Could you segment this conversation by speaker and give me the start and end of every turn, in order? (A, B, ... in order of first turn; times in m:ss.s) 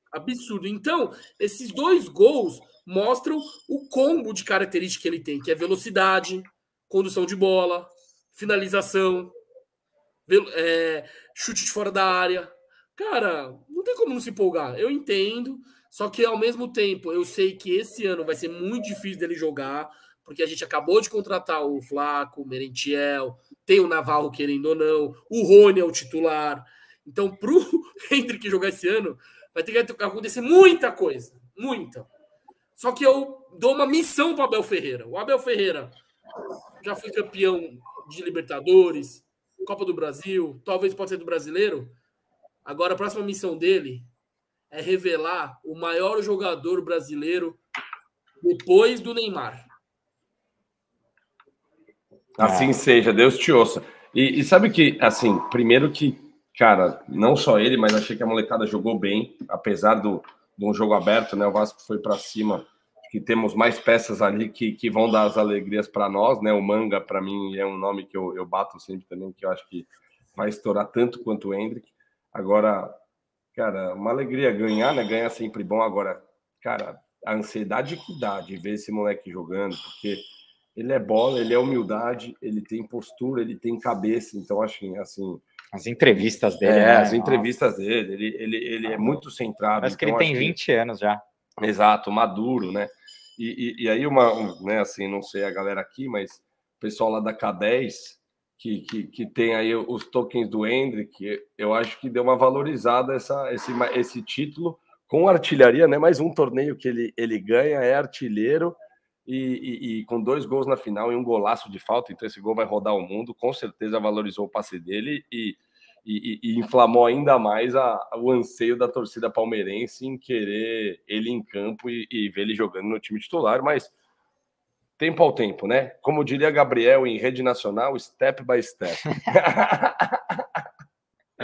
0:00.1-0:09.3 A
0:10.3-0:32.1 A
0:32.8-0:36.0 A
0:36.8-0:42.0 A
0:42.6-0:44.1 A
0:44.7-0:47.6 A
0:48.4-0:49.7 A
0:52.4-1:13.0 B
0:52.4-0:52.7 C
1:13.5-1:25.4 B
1:25.7-1:27.5 C
1:26.6-1:30.6 B
1:28.9-1:29.2 C
1:29.8-1:31.2 C
1:31.6-2:03.9 B
2:05.0-2:10.6 B